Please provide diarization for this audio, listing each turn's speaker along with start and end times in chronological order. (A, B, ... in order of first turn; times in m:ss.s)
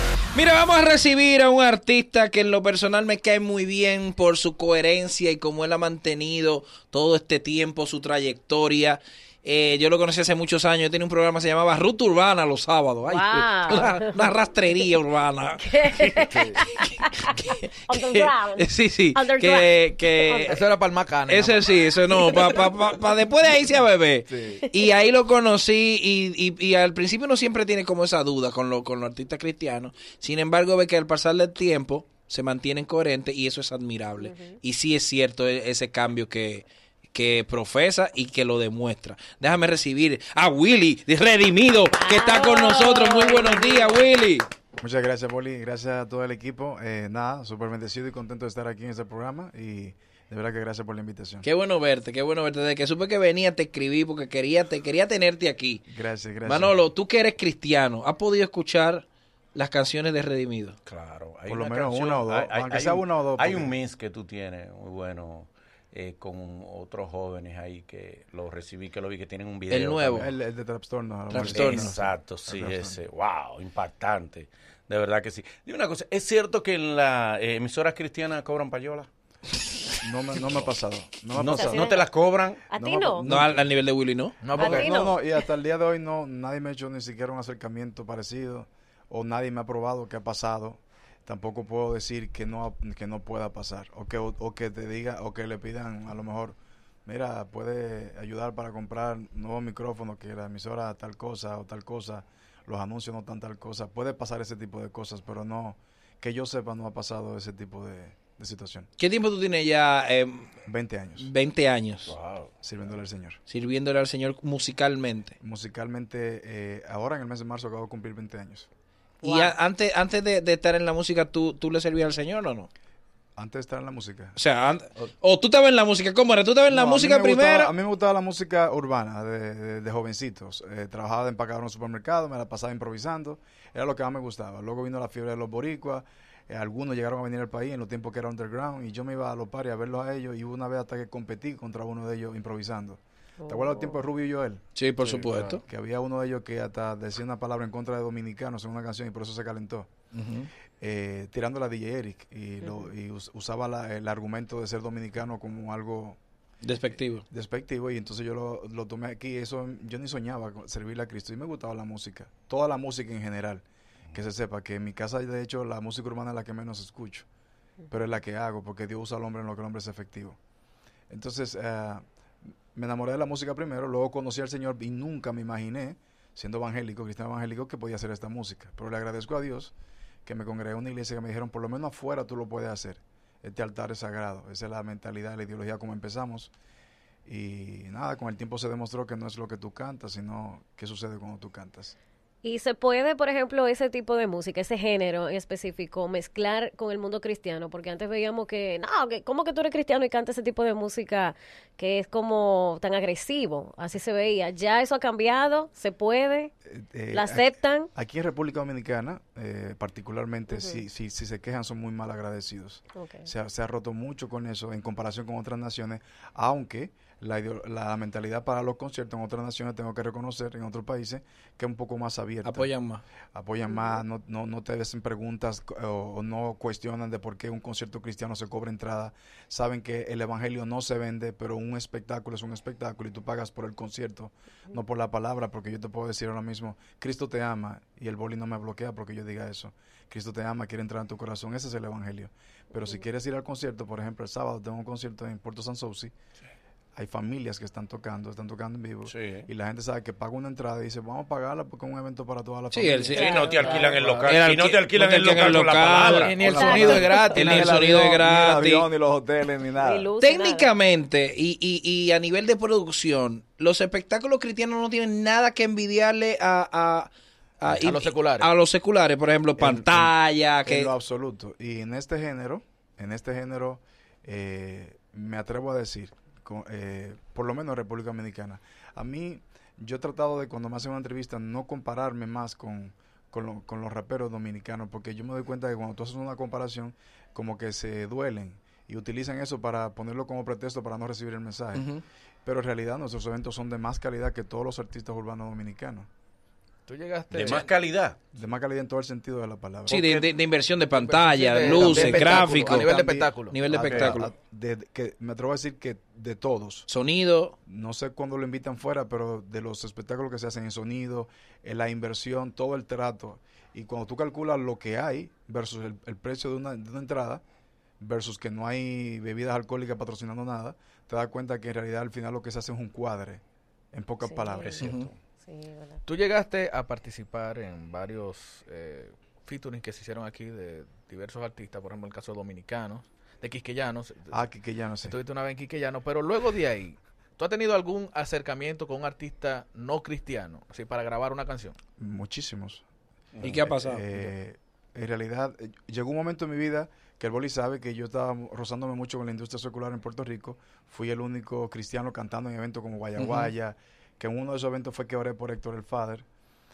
0:00.4-0:16.6 A
0:13.1-0:14.3 B
0:15.6-0:20.6 B
0:16.3-0:16.6 C
0:17.3-0:20.6 A
0:20.5-0:22.3 C
0:21.3-0:44.5 A
0:34.2-0:34.6 B
0:41.9-0:44.0 B
0:44.8-0:51.4 D
0:51.4-0:55.8 A
0:55.9-0:56.8 D
0:56.4-1:00.8 A
1:00.9-1:10.3 E
1:01.5-1:03.7 D
1:09.7-1:10.3 A
1:10.1-1:13.0 D
1:11.3-1:11.9 A
1:11.4-1:19.1 E
1:20.0-1:22.0 D
1:21.3-1:22.6 E
1:21.4-1:22.1 B
1:22.7-1:23.3 B
1:22.7-1:23.6 D
1:23.2-1:24.5 A
1:24.4-1:24.9 C
1:24.5-1:48.9 D
1:24.6-1:25.3 B
1:49.0-1:50.5 A
1:50.7-1:51.3 D
1:51.2-1:52.1 A
1:52.1-1:52.5 E
1:52.6-1:53.4 D
1:53.5-1:55.4 A
1:55.4-1:58.7 D
1:59.2-1:59.5 B
1:59.2-2:02.7 A
2:03.4-2:04.4 D
2:04.4-2:07.7 A
2:06.7-2:29.9 D
2:23.4-2:24.0 B
2:24.8-2:25.6 A
2:30.1-2:30.5 A
2:30.8-2:36.2 D
2:32.6-2:32.9 B
2:36.6-2:37.2 A
2:37.3-2:47.3 D
2:47.9-2:50.4 D
2:51.1-2:52.0 D
2:52.7-2:59.7 D
3:00.2-3:06.5 D
3:07.3-3:12.0 D
3:12.4-3:26.5 B
3:26.7-3:42.7 D
3:27.1-3:27.9 B
3:30.5-3:30.8 B
3:33.0-3:33.3 B
3:42.4-3:43.0 A
3:43.3-4:06.1 D
4:07.0-4:13.8 D
4:09.1-4:09.5 E
4:12.7-4:13.4 A
4:13.2-4:16.4 E
4:13.2-4:14.0 B
4:13.6-4:14.3 C
4:14.2-4:18.9 A
4:16.1-4:18.2 C
4:16.4-4:20.1 D
4:16.5-4:17.5 B
4:19.8-4:20.7 B
4:20.2-4:30.9 A
4:27.7-4:28.5 C
4:29.6-4:51.9 D
4:51.8-4:52.0 A
4:52.4-4:56.1 D
4:56.9-4:57.7 C
4:57.3-4:58.2 E
4:58.3-5:00.1 D
4:59.9-5:02.9 A
4:59.9-5:00.3 E
5:00.9-5:03.6 C
5:01.6-5:06.9 D
5:03.5-5:04.3 A
5:03.8-5:04.2 E
5:06.9-5:07.6 A
5:07.7-5:17.4 D
5:18.0-5:23.4 D
5:23.9-5:25.0 D
5:24.2-5:24.8 B
5:24.6-5:25.2 E
5:24.8-5:25.1 A
5:25.4-5:26.0 B
5:26.1-5:34.4 C
5:34.3-5:35.2 D
5:35.0-5:41.8 C
5:42.0-5:42.8 D
5:43.4-5:56.3 D
5:43.4-5:44.0 A
5:53.2-5:53.5 A